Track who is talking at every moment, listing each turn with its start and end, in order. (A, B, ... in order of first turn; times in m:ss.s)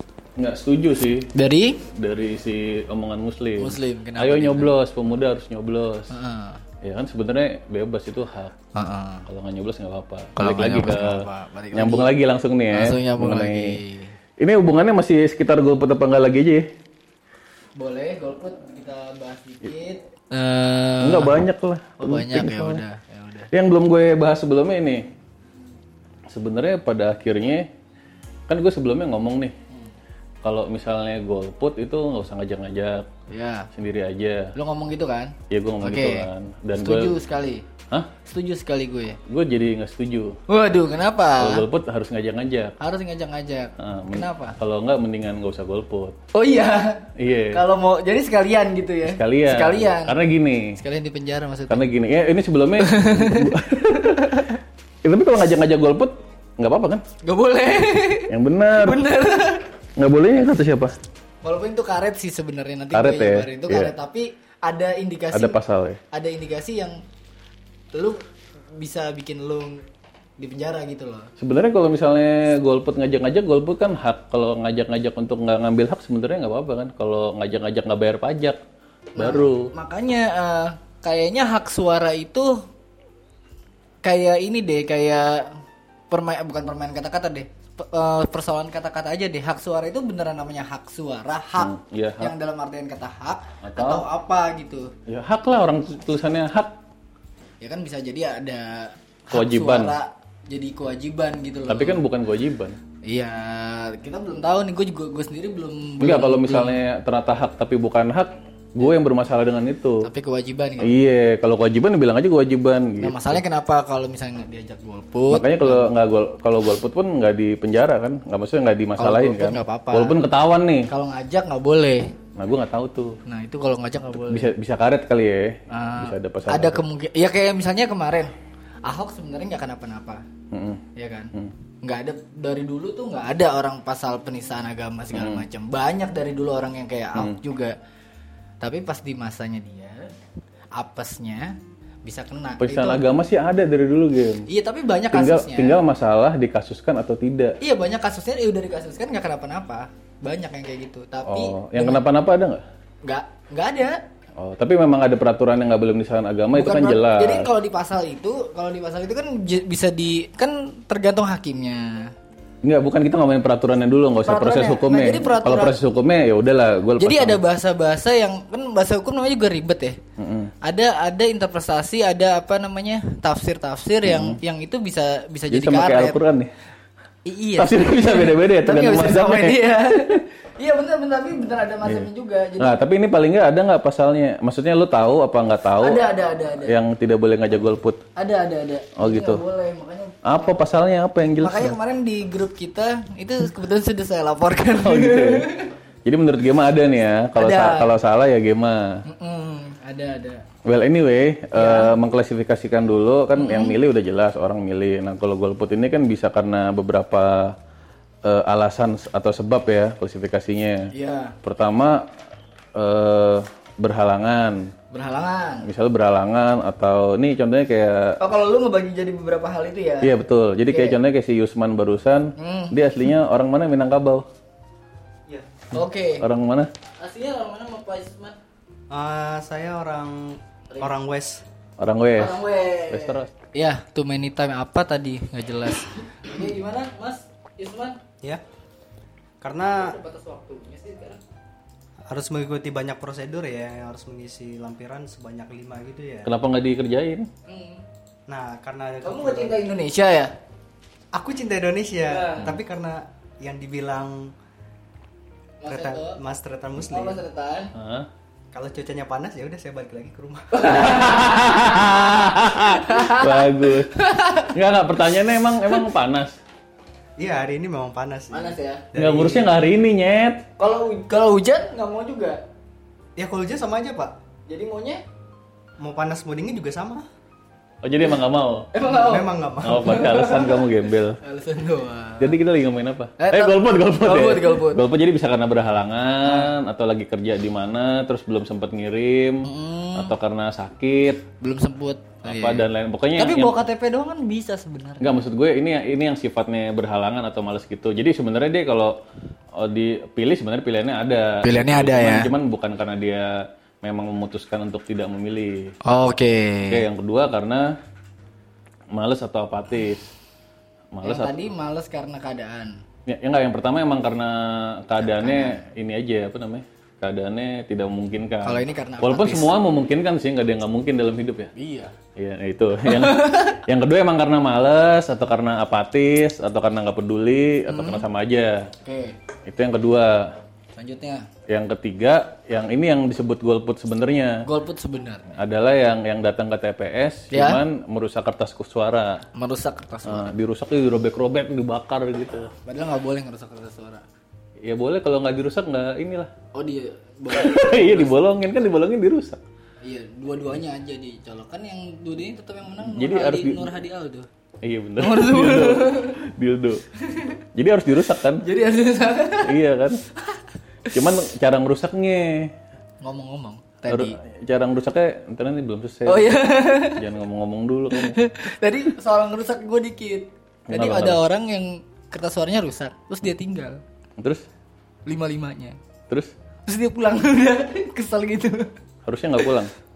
0:00.4-0:01.3 A
0:01.3-0:01.8 B
0:01.9-0:06.1 A
0:03.6-0:04.7 B
0:06.1-0:06.6 B
0:06.8-0:08.6 A
0:08.8-0:09.3 B
0:09.3-0:13.8 A
0:10.4-0:12.1 B
0:12.7-0:14.2 B
0:14.4-0:16.6 A
0:17.8-0:21.4 B
0:21.0-0:22.8 A
0:22.0-0:23.5 B
0:23.5-0:25.1 A
0:26.3-0:27.7 A
0:28.5-0:29.5 A
0:30.4-0:33.1 A
0:33.3-0:33.7 B
0:33.7-0:34.5 A
0:34.6-0:36.3 B
0:35.5-0:37.2 A
0:36.8-0:37.6 B
0:38.2-0:39.2 B
0:39.3-0:40.4 A
0:40.5-0:41.6 B
0:41.4-0:42.8 A
0:42.8-0:44.6 B
0:43.8-0:46.2 A
0:46.3-0:50.2 B
0:47.2-0:47.6 A
0:49.1-0:50.8 A
0:50.7-0:51.9 B
0:51.7-0:54.4 A
0:52.8-0:54.6 B
0:55.0-0:57.0 A
0:57.2-0:59.6 B
0:58.3-0:59.0 A
1:00.0-1:00.9 A
1:01.4-1:05.6 B
1:02.9-1:03.9 A
1:05.3-1:06.0 A
1:06.1-1:07.0 B
1:07.9-1:08.2 B
1:08.8-1:09.8 B
1:10.4-1:11.3 B
1:11.4-1:18.6 A
1:19.2-1:22.6 B
1:19.2-1:19.7 A
1:24.0-1:25.6 B
1:26.1-1:34.9 B
1:31.6-1:32.3 A
1:33.6-1:34.0 A
1:35.1-1:36.8 A
1:37.6-1:42.0 B
1:39.3-1:40.0 A
1:41.7-1:42.8 A
1:43.0-1:46.8 B
1:46.0-1:50.1 A
1:50.0-1:50.9 B
1:50.8-1:53.4 A
1:53.0-1:55.9 B
1:55.3-2:00.9 A
1:59.0-2:00.2 B
2:00.9-2:02.1 B
2:02.4-2:03.2 A
2:03.3-2:04.5 B
2:04.3-2:06.8 A
2:05.7-2:08.3 B
2:08.8-2:10.2 B
2:10.5-2:11.5 A
2:11.0-2:17.8 B
2:15.1-2:15.4 A
2:18.6-2:20.1 B
2:20.8-2:23.0 B
2:22.6-2:24.5 A
2:24.5-2:25.8 B
2:25.1-2:27.6 A
2:27.6-2:32.0 B
2:31.3-2:32.6 A
2:33.0-2:34.0 B
2:34.4-2:37.5 A
2:36.5-2:42.1 B
2:42.6-2:47.4 A
2:44.2-2:45.8 B
2:47.0-2:50.0 B
2:50.2-2:50.5 A
2:50.6-2:56.2 B
2:54.0-2:54.4 A
2:55.5-2:56.5 A
2:57.3-3:02.8 B
2:57.6-3:00.2 A
3:01.8-3:06.0 A
3:05.8-3:06.8 B
3:06.6-3:08.0 A
3:08.2-3:10.5 B
3:09.0-3:09.4 A
3:10.2-3:11.8 A
3:11.4-3:15.7 B
3:14.8-3:15.5 A
3:16.0-3:19.0 A
3:17.4-3:17.9 B
3:19.1-3:20.4 B
3:20.6-3:27.6 A
3:21.6-3:21.9 B
3:23.4-3:23.8 B
3:28.2-3:30.9 A
3:30.9-3:31.4 B
3:31.4-3:32.1 A
3:32.8-3:34.7 A
3:34.9-3:35.7 B
3:35.6-3:38.2 A
3:38.2-3:40.1 B
3:40.0-3:44.3 A
3:40.7-3:41.0 B
3:42.4-3:42.8 B
3:45.7-3:46.3 B
3:46.2-3:46.7 A
3:47.0-3:48.4 B
3:48.9-3:51.4 C
3:51.8-3:53.3 A
3:52.2-3:58.0 B
3:59.4-4:00.0 C
3:59.7-4:01.2 B
4:02.1-4:06.3 C
4:06.3-4:07.3 A
4:07.5-4:07.8 B
4:08.3-4:09.6 C
4:09.0-4:10.3 B
4:11.1-4:14.3 C
4:12.0-4:12.5 B
4:15.6-4:16.2 B
4:15.7-4:17.2 C
4:16.8-4:17.7 B
4:17.7-4:18.1 A
4:18.5-4:20.8 C
4:20.5-4:24.5 B
4:20.7-4:26.4 A
4:25.2-4:25.8 B
4:27.2-4:29.5 C
4:28.3-4:28.8 B
4:29.0-4:30.4 A
4:30.6-4:32.4 B
4:33.2-4:34.2 C
4:34.5-4:35.0 B
4:35.8-4:37.0 C
4:37.8-4:38.7 A
4:38.7-4:40.7 B
4:38.8-4:40.2 C
4:39.6-4:41.2 A
4:41.2-4:42.4 B
4:42.2-4:51.2 A
4:43.2-4:44.8 B
4:46.2-4:46.5 B
4:49.4-4:50.1 B
4:51.4-4:55.1 B
4:52.2-4:53.6 A
4:55.0-4:58.9 A
4:59.6-5:05.8 A
5:01.4-5:02.3 B
5:05.8-5:06.8 B
5:06.7-5:07.8 A
5:08.9-5:10.1 A
5:10.9-5:11.4 A
5:11.0-5:12.8 B
5:13.1-5:21.5 A
5:15.0-5:15.6 B
5:18.4-5:19.5 B
5:21.6-5:21.9 B
5:22.2-5:28.7 A
5:22.8-5:23.6 B
5:27.7-5:28.0 B
5:28.8-5:29.2 B
5:29.5-5:30.3 A
5:30.8-5:31.3 B
5:31.5-5:34.4 A
5:34.4-5:35.4 B
5:35.4-5:39.2 A
5:37.3-5:37.6 B
5:39.4-5:40.3 B
5:40.1-5:42.5 A
5:42.6-5:44.0 B
5:44.6-5:46.3 A
5:46.5-5:48.1 B
5:47.3-5:49.4 A
5:49.8-5:54.3 B
5:52.8-5:53.7 A
5:54.6-5:56.8 A
5:55.0-5:56.2 B
5:57.0-5:57.4 B
5:57.5-5:58.4 A
5:58.4-5:59.6 B
5:59.4-6:00.0 A
6:00.9-6:02.5 A
6:03.0-6:04.2 B
6:03.9-6:08.2 A
6:06.1-6:07.0 B
6:07.9-6:13.8 B
6:10.7-6:11.2 A
6:14.2-6:14.4 A
6:15.1-6:15.8 B
6:16.7-6:18.7 B
6:19.0-6:19.7 A